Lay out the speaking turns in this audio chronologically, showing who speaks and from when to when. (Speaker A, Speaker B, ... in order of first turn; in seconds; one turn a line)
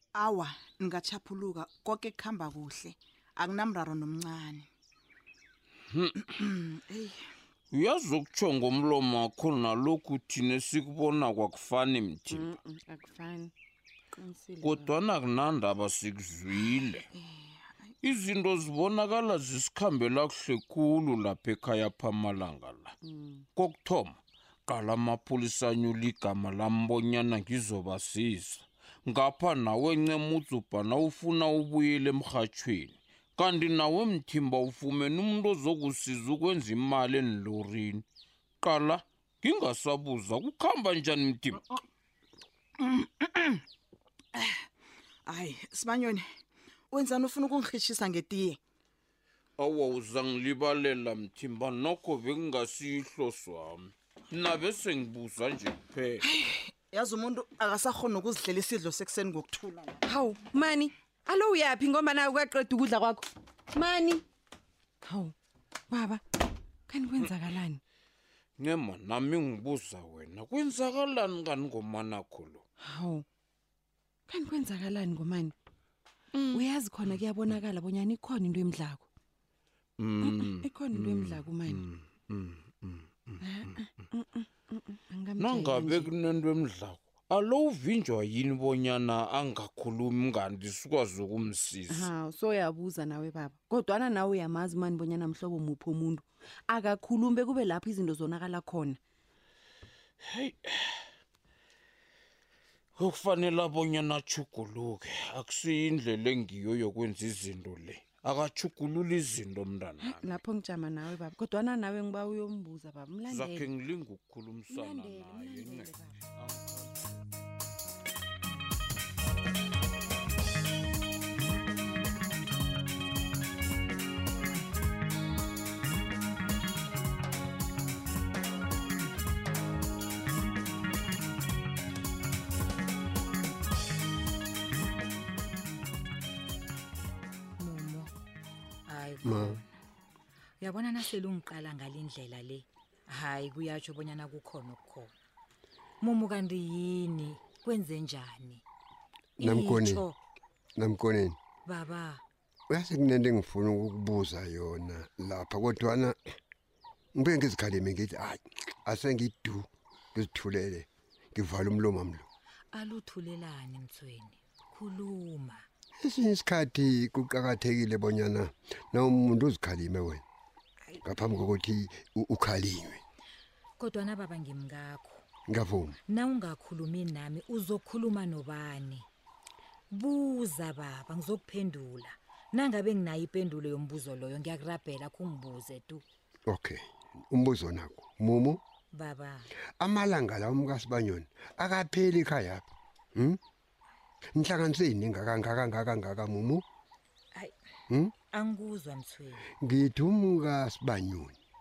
Speaker A: 0.2-4.7
Speaker B: 5.9-6.3
Speaker A: 6.4-7.1
Speaker B: 7.7-12.6
Speaker C: 12.3-13.5
Speaker C: 14.2-14.9
Speaker B: 14.6-17.1
Speaker B: 18.0-22.9
Speaker C: 23.1-23.4
Speaker B: 23.6-38.0
Speaker B: 38.6-41.6
Speaker A: 42.9-43.5
Speaker A: 45.3-46.2
Speaker A: 46.9-48.6
Speaker B: 49.6-56.2
Speaker A: 56.3-59.9
Speaker C: 60.1-64.2
Speaker C: 65.0-65.3
Speaker C: 65.9-66.2
Speaker C: 66.9-67.8
Speaker B: 68.6-72.6
Speaker C: 72.8-73.2
Speaker C: 74.3-75.5
Speaker C: 76.5-79.1
Speaker B: 80.0-83.1
Speaker C: 80.2-81.8
Speaker C: 83.4-86.1
Speaker B: 85.4-92.1
Speaker C: 91.9-99.0
Speaker B: 100.2-101.0
Speaker B: 103.0-110.4
Speaker C: 110.0-113.7
Speaker B: 113.3-115.9
Speaker C: 114.7-116.2
Speaker D: 137.6-138.1
Speaker D: 138.9-139.7
Speaker E: 139.2-139.6
Speaker D: 140.6-145.1
Speaker D: 146.0-148.6
Speaker E: 149.4-150.1
Speaker D: 149.4-150.2
Speaker E: 150.8-151.4
Speaker D: 151.7-152.2
Speaker E: 152.7-156.2
Speaker E: 157.2-162.3
Speaker D: 162.7-165.7
Speaker E: 166.0-170.2
Speaker E: 171.0-173.0
Speaker D: 173.8-175.2
Speaker E: 175.5-176.0
Speaker D: 176.1-179.1
Speaker D: 179.9-186.0
Speaker E: 186.5-188.6
Speaker D: 188.9-189.5
Speaker E: 189.8-193.4
Speaker E: 194.3-196.6
Speaker D: 198.3-199.5
Speaker E: 199.6-201.4